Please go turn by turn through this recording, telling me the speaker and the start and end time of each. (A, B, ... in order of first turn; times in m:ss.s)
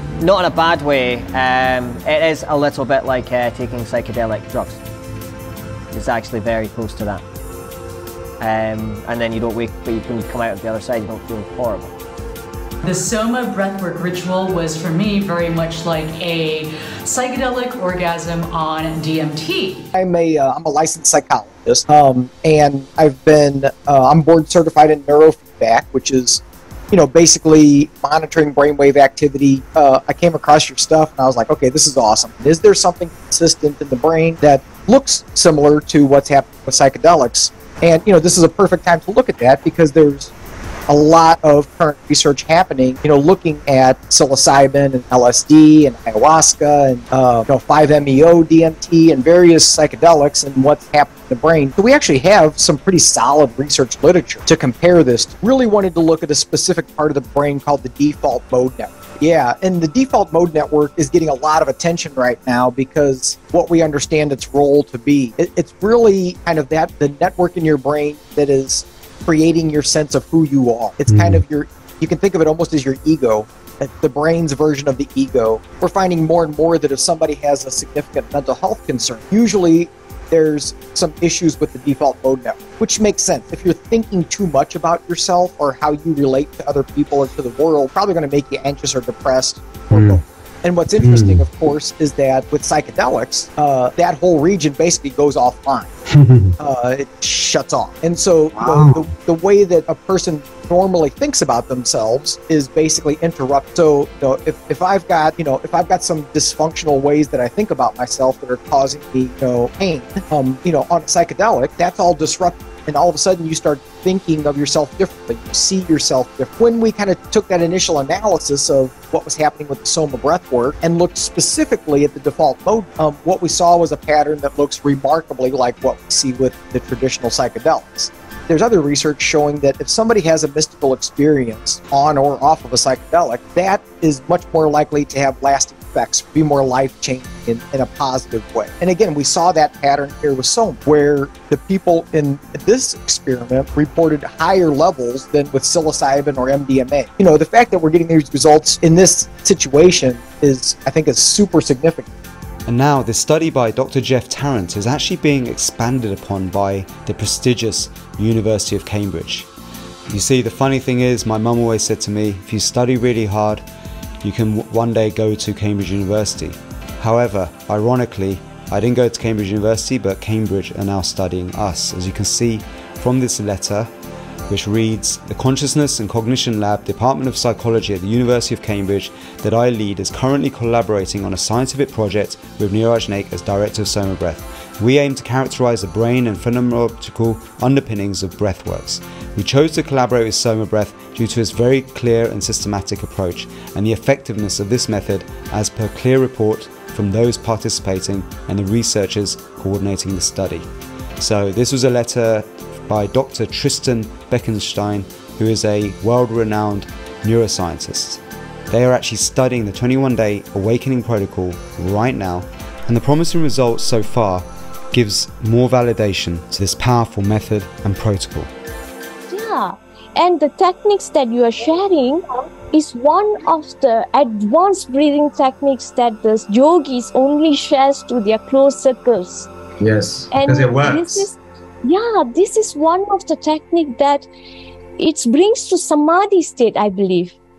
0:00.2-0:04.8 A
0:05.9-0:07.2 A
0:08.4-0:11.9 A
0:12.8-0:19.8 B
0:19.9-0:40.3 C
0:40.9-1:35.9 C
1:11.1-1:11.4 D
1:29.9-1:30.2 D
1:31.0-1:31.4 D
1:36.2-1:36.5 D
1:36.6-2:32.1 C
1:38.6-1:39.1 D
2:32.7-2:39.5 E
2:40.1-2:43.6 E
2:44.2-2:53.9 E
2:54.5-3:20.7 E
3:21.2-3:38.5 E
3:39.3-3:49.5 F
3:49.8-3:51.3 D
3:50.3-3:54.3 F
3:55.0-3:57.4 F